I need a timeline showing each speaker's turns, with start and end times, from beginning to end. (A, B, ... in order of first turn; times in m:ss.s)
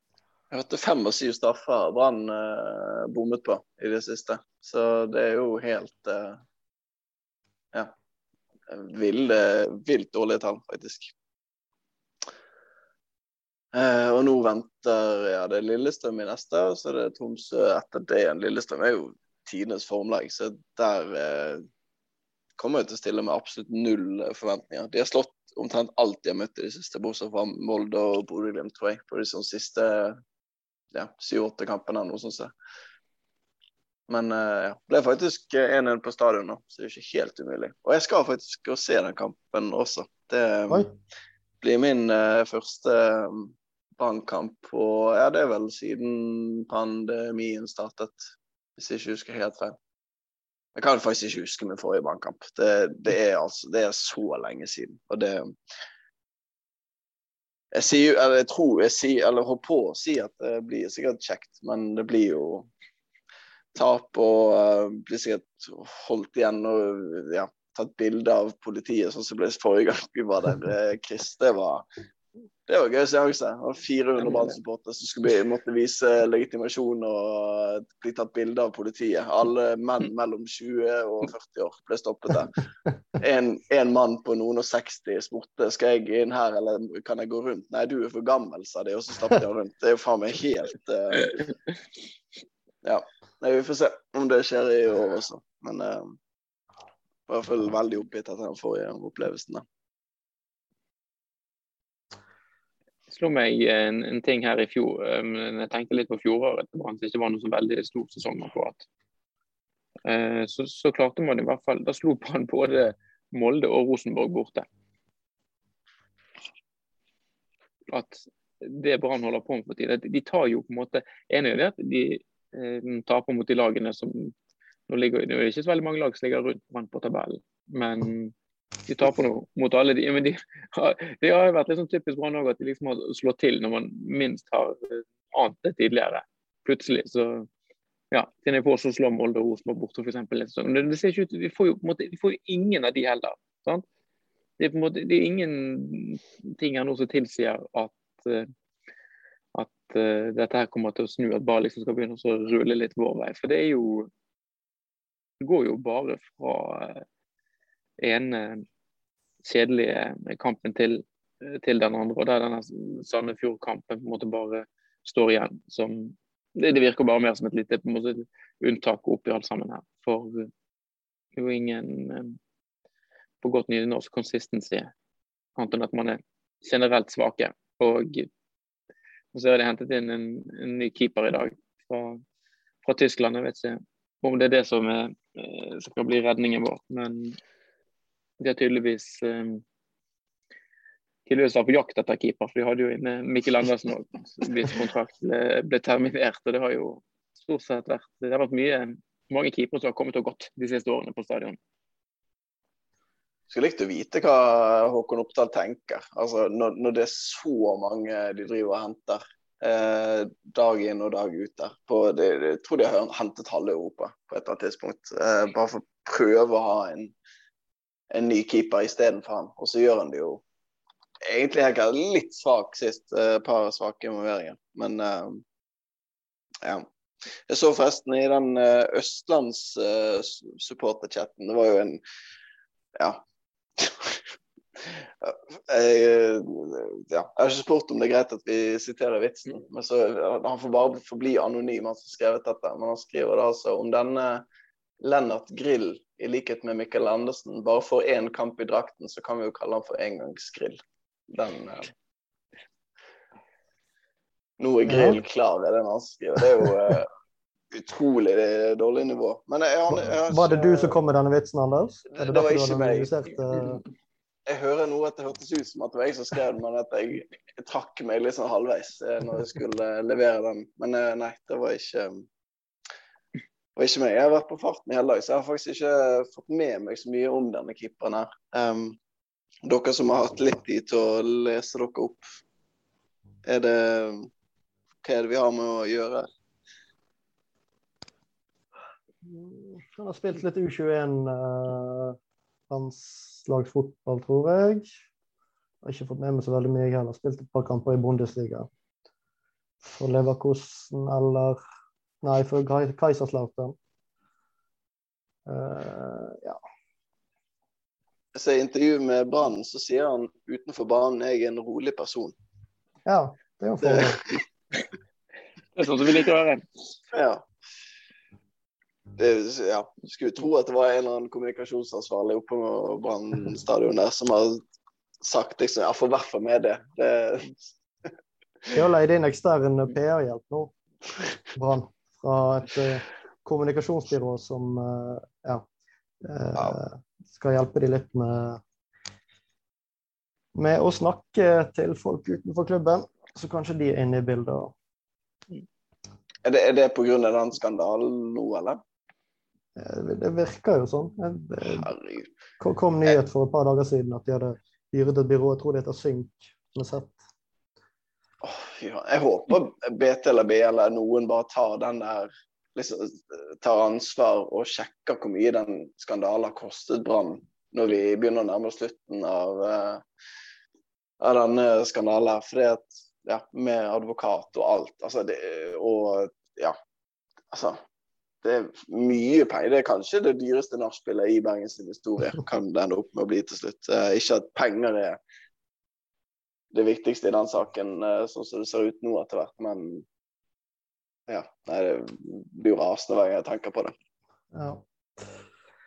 0:00.5-0:06.4 A
0:08.7-0:11.1 A
0:13.7-0:21.6 A
0:22.6-0:30.2 A
0:30.9-0:32.5 A
0:34.1-0:40.9 A
0:41.6-0:48.2 A
0:48.8-0:49.8 A
0:50.8-0:55.5 A
0:57.7-1:02.7 A
1:03.7-1:11.9 A
1:12.7-1:22.6 A
1:23.2-1:31.4 A
1:32.8-1:36.2 A
1:37.3-1:39.6 A
1:43.1-1:48.8 B
1:50.0-1:54.6 B
1:57.9-2:04.3 B
2:04.9-2:08.3 B
2:08.9-2:17.5 B
2:18.1-2:23.8 B
2:24.6-2:28.5 B
2:29.5-2:34.1 B
2:35.4-2:37.0 B
2:38.0-2:38.6 B
2:39.4-2:50.5 B
2:51.3-2:52.4 B
2:53.4-2:54.9 B
2:55.6-2:58.3 B
2:59.3-3:02.2 B
3:02.8-3:07.4 B
3:08.4-3:09.6 B
3:11.2-3:21.6 B
3:23.5-3:37.1 A
3:38.1-3:40.4 A
3:41.2-3:45.4 A
3:47.5-3:52.0 A
3:53.0-3:53.2 A
3:53.8-4:04.4 A
4:05.0-4:11.9 A
4:14.6-4:17.1 A
4:14.8-4:15.2 C
4:17.7-4:21.0 A
4:19.9-4:23.8 C
4:22.1-4:23.1 A
4:24.5-4:32.3 A
4:33.8-4:39.0 A
4:39.6-4:42.2 A
4:43.4-4:44.3 A
4:45.0-4:46.3 A
4:49.2-4:52.2 C
4:52.7-4:54.9 C
4:55.8-4:58.7 C
4:59.8-5:01.6 C
5:02.2-5:03.8 C
5:05.4-5:06.6 C
5:08.3-5:12.4 A
5:13.0-5:14.2 C
5:13.8-5:14.4 A
5:15.8-5:16.7 B
5:17.1-5:17.4 A
5:19.2-5:24.6 A
5:25.2-5:27.7 A
5:28.7-5:30.7 C
5:31.5-5:35.6 C
5:36.2-5:38.6 C
5:40.5-5:44.7 C
5:46.4-5:48.8 A
5:49.8-5:51.9 C
5:51.7-5:52.3 A
5:52.6-5:57.2 C
5:58.4-6:10.0 A
6:11.2-6:16.8 A
6:17.5-6:17.8 A
6:18.4-6:25.2 A
6:26.7-6:30.0 A
6:31.3-6:33.9 A
6:34.5-6:34.8 C